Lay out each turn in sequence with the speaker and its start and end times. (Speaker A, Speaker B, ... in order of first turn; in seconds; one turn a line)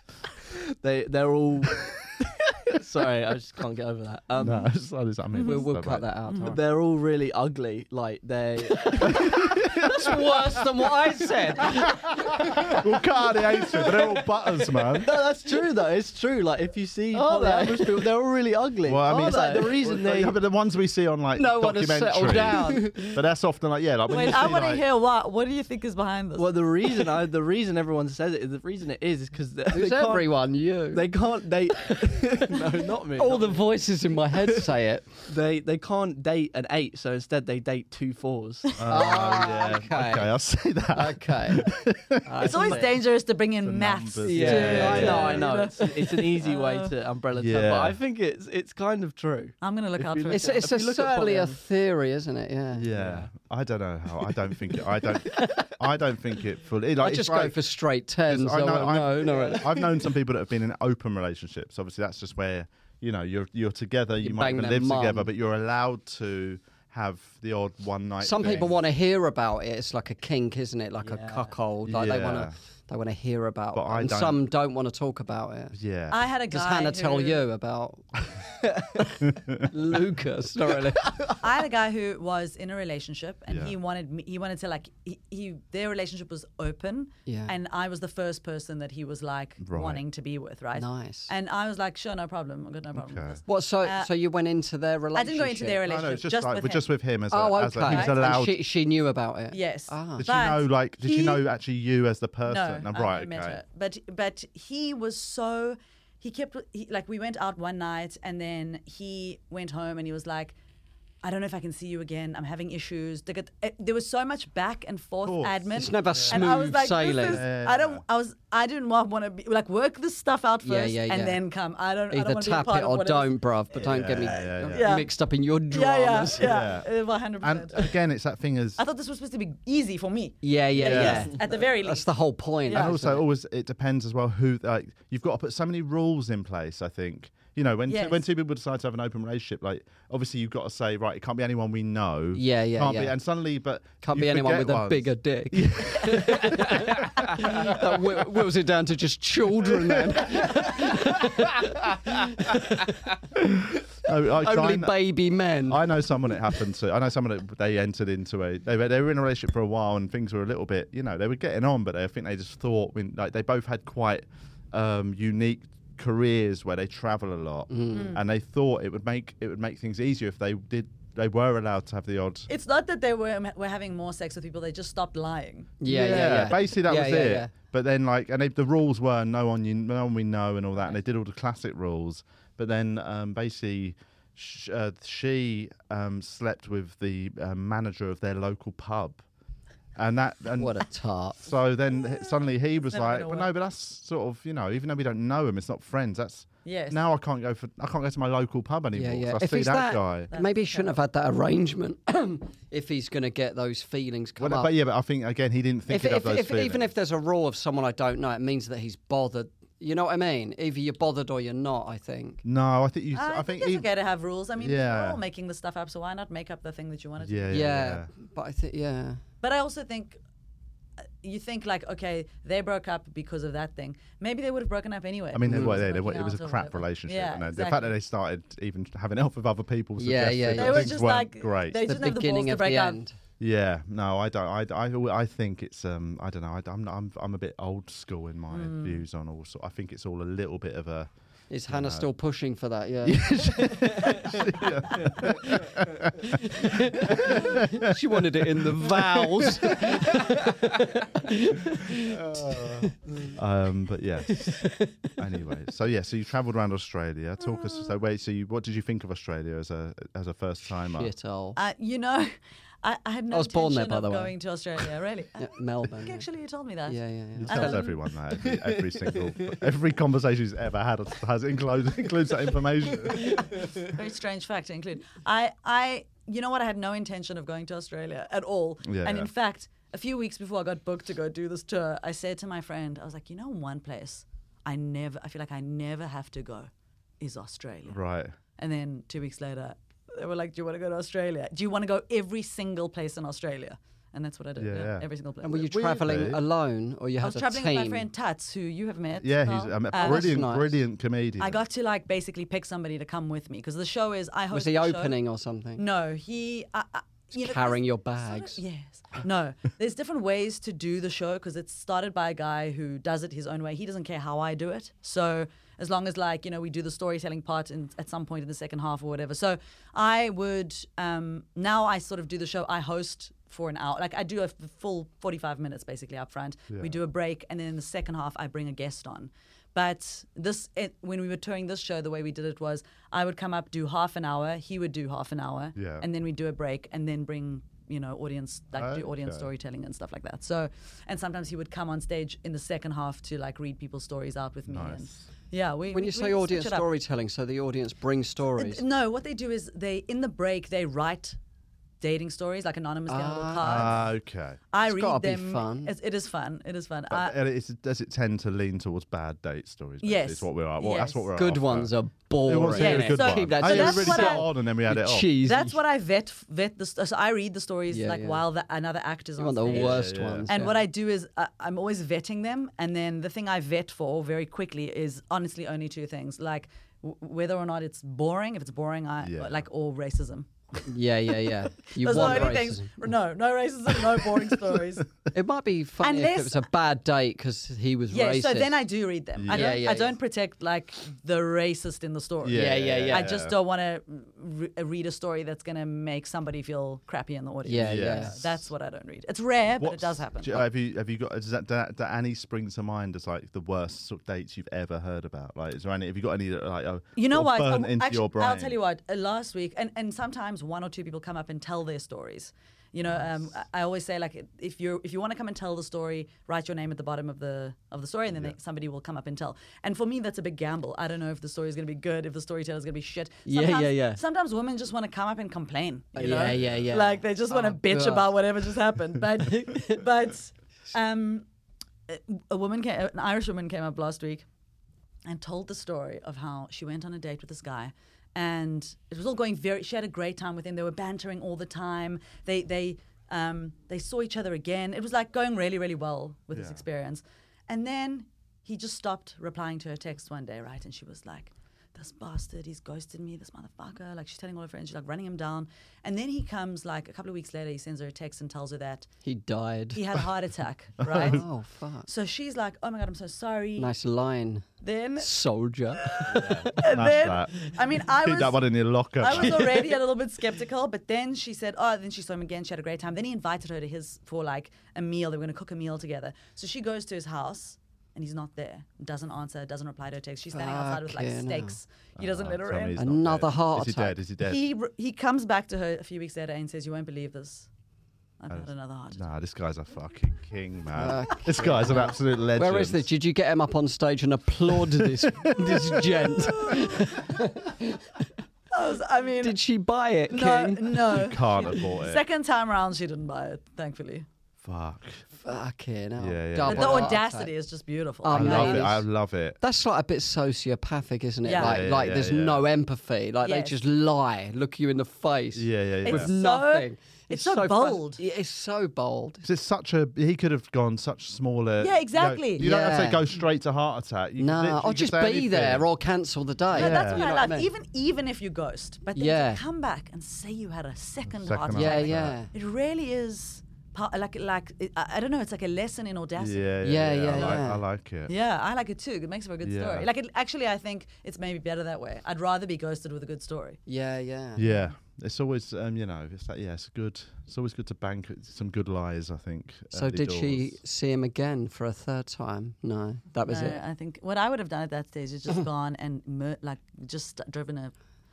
Speaker A: 0.5-4.7
Speaker B: 4.4-6.1
Speaker C: 5.4-5.7
Speaker D: 5.4-6.6
Speaker A: 6.5-9.5
Speaker D: 8.9-12.8
Speaker B: 9.0-10.1
Speaker A: 11.6-12.8
Speaker B: 11.7-15.1
Speaker A: 13.7-14.1
Speaker A: 14.8-20.4
Speaker D: 17.1-18.1
Speaker B: 18.8-24.8
Speaker D: 21.4-23.2
Speaker C: 24.1-26.5
Speaker A: 26.4-30.4
Speaker D: 29.7-31.1
Speaker A: 30.9-33.6
Speaker D: 32.2-32.6
Speaker D: 33.1-35.1
Speaker A: 35.3-39.1
Speaker B: 38.8-42.7
Speaker D: 38.9-40.3
Speaker D: 40.9-41.7
Speaker D: 42.2-43.0
Speaker C: 42.4-46.9
Speaker B: 43.6-45.5
Speaker D: 44.2-45.9
Speaker A: 44.3-51.6
Speaker B: 47.3-48.0
Speaker C: 49.6-50.6
Speaker D: 50.3-52.9
Speaker B: 52.7-57.6
Speaker A: 52.9-53.3
Speaker D: 55.3-55.7
Speaker D: 57.0-59.8
Speaker B: 58.3-68.8
Speaker A: 59.2-59.6
Speaker D: 64.2-65.3
Speaker D: 68.2-75.7
Speaker A: 71.0-71.5
Speaker B: 71.8-72.5
Speaker B: 73.7-74.4
Speaker B: 75.7-76.2
Speaker C: 76.1-77.4
Speaker D: 76.5-81.3
Speaker B: 79.3-79.7
Speaker C: 81.4-94.1
Speaker B: 83.5-83.7
Speaker D: 87.2-87.5
Speaker B: 89.6-90.0
Speaker D: 90.7-91.3
Speaker B: 92.9-93.4
Speaker D: 93.5-95.8
Speaker C: 95.1-96.9
Speaker B: 95.8-98.5
Speaker D: 97.3-100.2
Speaker C: 97.8-98.3
Speaker C: 99.5-101.4
Speaker B: 100.2-103.6
Speaker C: 102.5-110.5
Speaker C: 111.2-123.4
Speaker B: 115.2-115.6
Speaker D: 115.7-117.4
Speaker B: 116.1-116.5
Speaker B: 117.2-118.0
Speaker D: 120.6-121.4
Speaker D: 122.1-126.5
Speaker B: 123.7-125.0
Speaker C: 124.3-125.1
Speaker C: 125.7-127.9
Speaker B: 126.4-126.9
Speaker B: 127.4-128.8
Speaker C: 128.8-132.1
Speaker D: 130.4-133.2
Speaker B: 130.8-131.2
Speaker C: 132.7-133.0
Speaker B: 132.7-148.0
Speaker C: 137.9-138.2
Speaker D: 142.3-143.2
Speaker D: 144.0-155.9
Speaker B: 149.7-151.0
Speaker B: 154.0-155.0
Speaker B: 155.7-172.5
Speaker D: 167.7-168.1
Speaker C: 167.9-168.2
Speaker C: 172.5-176.4
Speaker D: 175.8-177.5
Speaker B: 175.8-189.2
Speaker B: 189.9-190.8
Speaker D: 190.6-191.4
Speaker B: 191.4-200.3
Speaker C: 192.8-193.5
Speaker C: 196.6-197.0
Speaker D: 198.9-204.7
Speaker C: 200.3-200.9
Speaker B: 204.4-206.9
Speaker D: 205.9-212.4
Speaker B: 212.4-213.8
Speaker C: 213.1-217.8
Speaker B: 214.6-215.2
Speaker B: 217.2-218.1
Speaker D: 217.5-219.2
Speaker C: 219.4-220.2
Speaker C: 221.2-227.9
Speaker B: 225.3-231.9
Speaker D: 225.4-225.8
Speaker D: 230.0-231.0
Speaker C: 230.6-233.0
Speaker D: 231.8-233.1
Speaker B: 233.4-241.1
Speaker C: 238.5-239.0
Speaker D: 241.5-244.4
Speaker B: 241.7-242.1
Speaker B: 243.0-250.2
Speaker D: 246.2-253.0
Speaker B: 252.1-261.1
Speaker D: 254.3-255.2
Speaker D: 260.9-261.6
Speaker C: 261.6-267.9
Speaker D: 263.3-264.3
Speaker D: 265.4-266.2
Speaker D: 266.9-267.8
Speaker B: 267.4-273.4
Speaker A: 268.4-269.5
Speaker C: 273.1-286.7
Speaker B: 278.8-279.3
Speaker C: 287.2-288.0
Speaker B: 287.9-288.3
Speaker C: 288.6-295.8
Speaker B: 294.6-295.0
Speaker D: 295.4-298.0
Speaker B: 295.6-296.4
Speaker C: 297.2-300.4
Speaker B: 299.2-301.6
Speaker D: 299.9-300.7
Speaker C: 301.4-305.1
Speaker D: 304.5-305.8
Speaker C: 305.8-346.9
Speaker D: 307.3-308.6
Speaker B: 335.8-336.0
Speaker B: 338.7-339.5
Speaker B: 344.7-345.2
Speaker D: 345.9-348.8
Speaker C: 348.6-351.4
Speaker C: 352.0-354.1
Speaker D: 353.1-354.0
Speaker B: 353.6-354.6
Speaker C: 354.7-357.3
Speaker D: 354.8-355.9
Speaker B: 357.1-365.4
Speaker C: 360.0-361.3
Speaker D: 361.3-365.8
Speaker C: 362.7-364.5
Speaker C: 365.4-380.5
Speaker D: 367.9-368.4
Speaker D: 369.4-370.8
Speaker B: 369.7-370.5
Speaker B: 379.2-379.6
Speaker D: 380.9-383.1
Speaker C: 381.9-385.1
Speaker D: 385.3-388.8
Speaker C: 386.0-386.7
Speaker C: 388.1-400.6
Speaker B: 389.4-389.8
Speaker D: 389.5-390.1
Speaker B: 392.4-393.6
Speaker D: 392.5-393.3
Speaker D: 397.6-398.3
Speaker B: 397.8-398.7
Speaker B: 399.8-408.8
Speaker C: 407.1-431.4
Speaker B: 418.3-418.6
Speaker D: 423.4-424.2
Speaker D: 426.1-428.3
Speaker B: 426.2-426.9
Speaker D: 429.5-430.0
Speaker C: 432.1-434.4
Speaker C: 435.2-459.1
Speaker B: 446.5-446.8
Speaker D: 459.2-460.0
Speaker C: 459.9-461.4
Speaker B: 461.0-461.4
Speaker D: 461.2-462.1
Speaker C: 462.1-463.9
Speaker D: 463.8-464.7
Speaker C: 464.8-465.3
Speaker D: 465.2-466.5
Speaker C: 466.0-483.0
Speaker B: 466.3-469.9
Speaker D: 480.5-481.8
Speaker B: 482.2-484.6
Speaker D: 483.0-484.2
Speaker C: 484.4-487.7
Speaker C: 488.4-489.2
Speaker B: 488.5-493.1
Speaker D: 490.9-498.2
Speaker B: 494.7-496.8
Speaker C: 498.7-499.6
Speaker D: 499.4-501.2
Speaker C: 500.3-504.2
Speaker B: 501.1-502.2
Speaker B: 504.6-505.2
Speaker D: 505.4-507.5
Speaker B: 506.2-507.2
Speaker C: 506.7-508.9
Speaker D: 508.2-509.1
Speaker B: 508.3-509.6
Speaker D: 509.6-519.5
Speaker C: 511.4-511.8
Speaker B: 511.6-512.6
Speaker C: 513.4-513.7
Speaker B: 515.5-516.3
Speaker C: 516.0-518.2
Speaker B: 519.4-525.9
Speaker C: 521.8-522.7
Speaker D: 522.6-523.2
Speaker D: 524.4-527.7
Speaker C: 526.7-536.7
Speaker B: 526.8-527.2
Speaker D: 529.1-529.6
Speaker B: 531.3-532.4
Speaker D: 531.7-532.5
Speaker B: 536.4-538.3
Speaker D: 536.8-537.8
Speaker C: 537.3-537.7
Speaker C: 538.3-543.8
Speaker B: 539.6-540.1
Speaker D: 543.9-544.6
Speaker B: 544.6-550.8
Speaker C: 544.6-544.9
Speaker D: 549.9-553.8
Speaker C: 553.5-557.9